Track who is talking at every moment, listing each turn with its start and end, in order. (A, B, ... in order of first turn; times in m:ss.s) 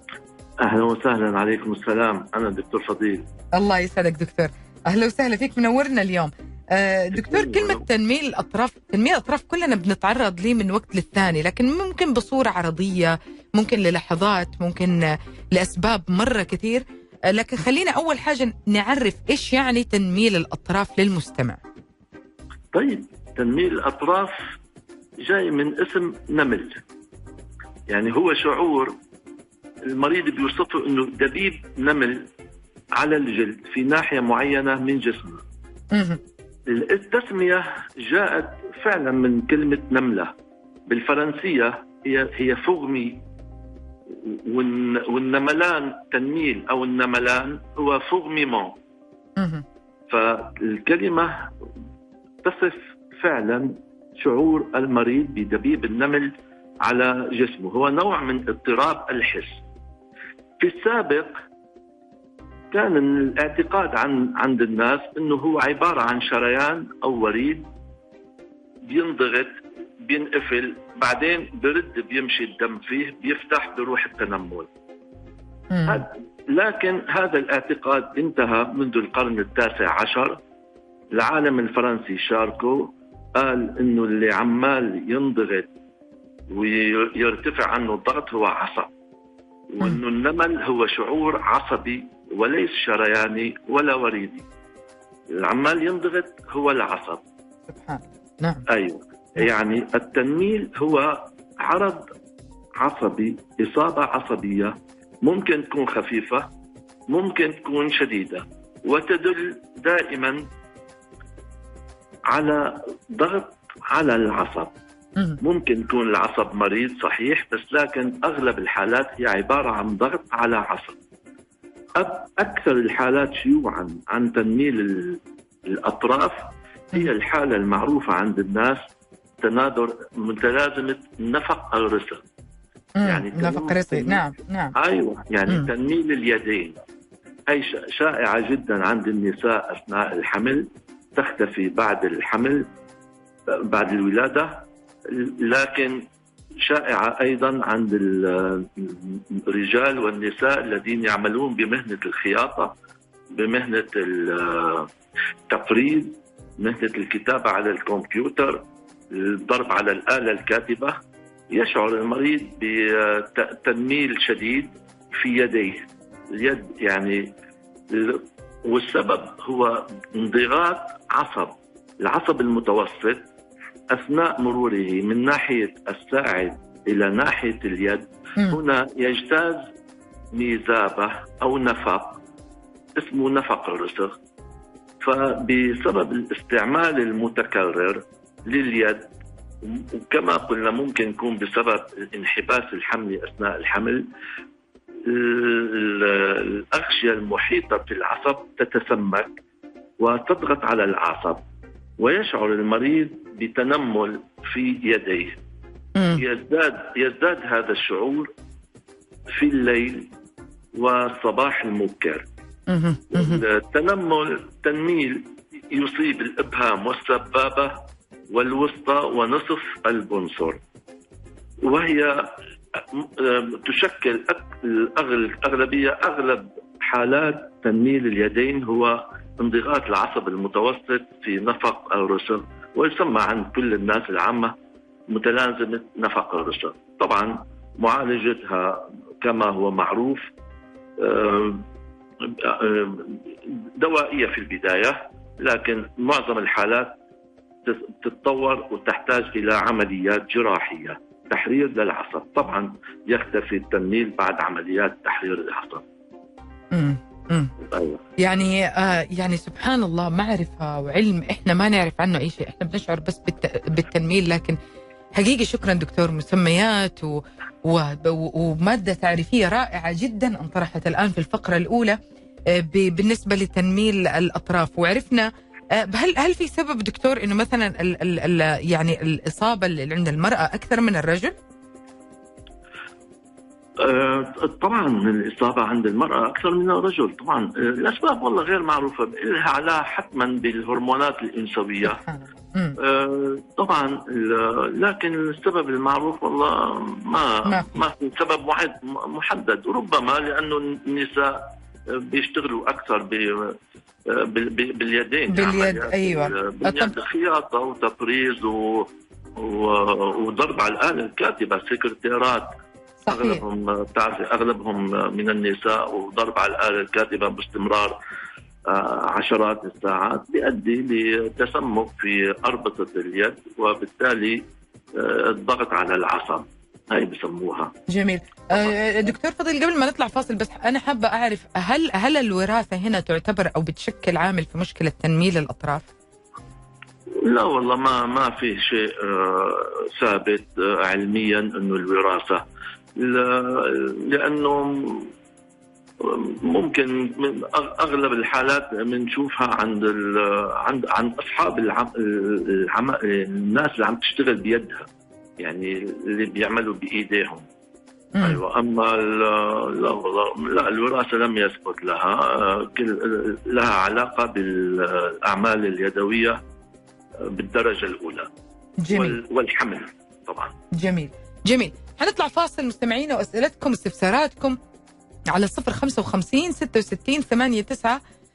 0:00.6-0:03.3 A
0:03.6-0:21.6 B
0:07.2-0:07.8 A
0:22.7-0:24.4 A
0:25.2-0:26.8 A
0:27.9-0:29.0 A
0:29.9-0:32.2 A
0:33.0-0:35.4 A
0:35.9-0:36.2 B
0:36.7-0:40.3 A
0:40.9-0:43.2 A
0:44.2-0:48.8 A
0:49.4-0:49.6 B
0:50.1-0:51.5 A
0:52.4-0:56.3 A
0:56.8-0:59.6 A
1:00.6-1:01.3 A
1:02.7-1:07.7 A
1:08.9-1:09.5 A
1:10.1-1:14.7 A
1:15.7-1:16.0 B
1:15.9-1:20.4 A
1:21.1-1:25.7 A
1:26.5-1:28.9 A
1:29.7-1:34.5 A
1:35.4-1:37.2 A
1:37.7-1:38.6 B
1:38.7-1:42.1 A
1:42.8-1:46.5 A
1:47.1-1:50.4 A
1:52.3-1:54.7 A
1:55.4-2:01.0 A
2:02.0-2:08.8 A
2:09.4-2:12.2 A
2:13.0-2:14.7 B
2:13.0-2:14.2 A
2:14.8-2:16.8 A
2:17.5-2:22.7 A
2:23.7-2:26.0 A
2:26.6-2:32.7 A
2:33.3-2:34.9 A
2:35.5-2:41.0 A
2:41.5-2:47.3 A
2:47.9-2:53.2 A
2:53.9-2:59.7 A
3:00.3-3:02.2 A
3:03.0-3:04.2 A
3:05.0-3:09.1 A
3:09.6-3:14.1 A
3:15.1-3:19.3 A
3:20.0-3:21.4 A
3:22.0-3:25.4 A
3:26.0-3:26.2 B
3:26.2-3:28.3 A
3:29.3-3:30.1 A
3:30.8-3:32.3 A
3:32.7-3:33.4 B
3:33.1-3:37.8 A
3:38.3-3:40.6 A
3:41.6-3:42.3 A
3:42.9-3:54.5 A
3:55.1-4:00.3 A
4:01.0-4:01.6 A
4:02.3-4:07.0 A
4:07.6-4:15.8 A
4:16.7-4:17.5 B
4:17.7-4:18.0 A
4:18.2-4:24.6 B
4:25.2-4:32.0 B
4:32.5-4:41.3 B
4:43.8-4:52.0 A
4:51.8-4:52.8 B
4:52.8-5:03.6 A
4:57.5-4:57.7 B
5:04.1-5:12.5 A
5:05.3-5:07.0 B
5:13.0-5:13.4 B
5:13.1-5:18.0 A
5:18.7-5:24.4 A
5:25.0-5:27.7 A
5:27.9-5:35.8 B
5:37.2-5:42.4 A
5:43.0-5:45.1 A
5:46.0-5:54.9 A
5:55.4-5:57.4 A
5:58.2-6:06.4 A
6:07.3-6:08.3 A
6:08.8-6:09.2 B
6:08.9-6:10.5 A
6:10.8-6:14.6 B
6:15.3-6:18.0 B